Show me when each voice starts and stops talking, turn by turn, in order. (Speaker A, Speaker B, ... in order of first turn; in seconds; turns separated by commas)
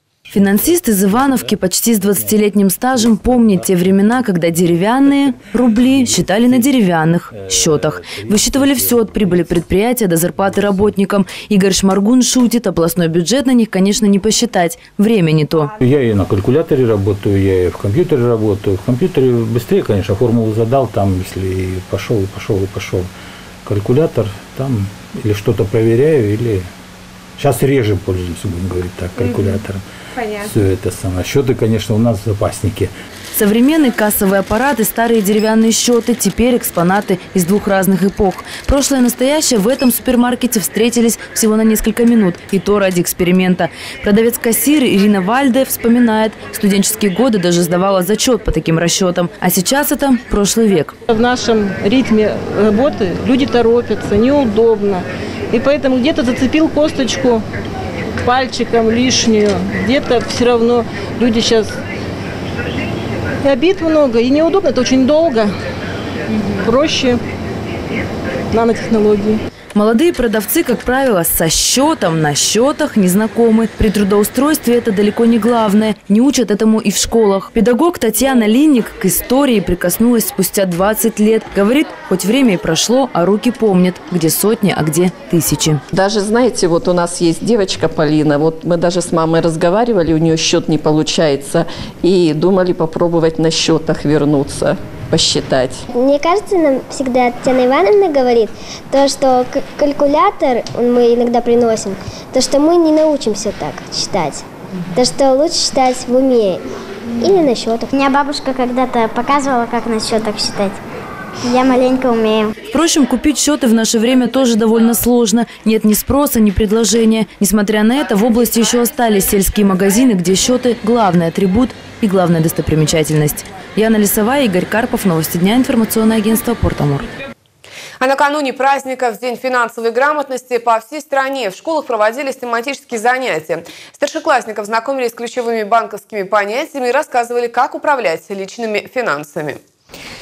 Speaker A: 0.3-6.7, Speaker B: 0.3-15.7, Speaker A: 7.3-9.6, Speaker A: 10.3-10.9, Speaker A: 15.8-23.1, Speaker A: 23.6-26.7, Speaker A: 27.4-32.9, Speaker B: 33.3-51.0, Speaker C: 51.1-57.4, Speaker C: 58.2-61.8, Speaker C: 63.4-65.5, Speaker C: 66.5-67.2, Speaker C: 68.5-69.4, Speaker B: 69.8-85.8, Speaker D: 85.9-95.8, Speaker E: 95.9-106.6, Speaker E: 107.2-107.9, Speaker F: 107.9-110.8, Speaker F: 111.4-112.5, Speaker B: 112.7-127.1, Speaker G: 128.0-139.6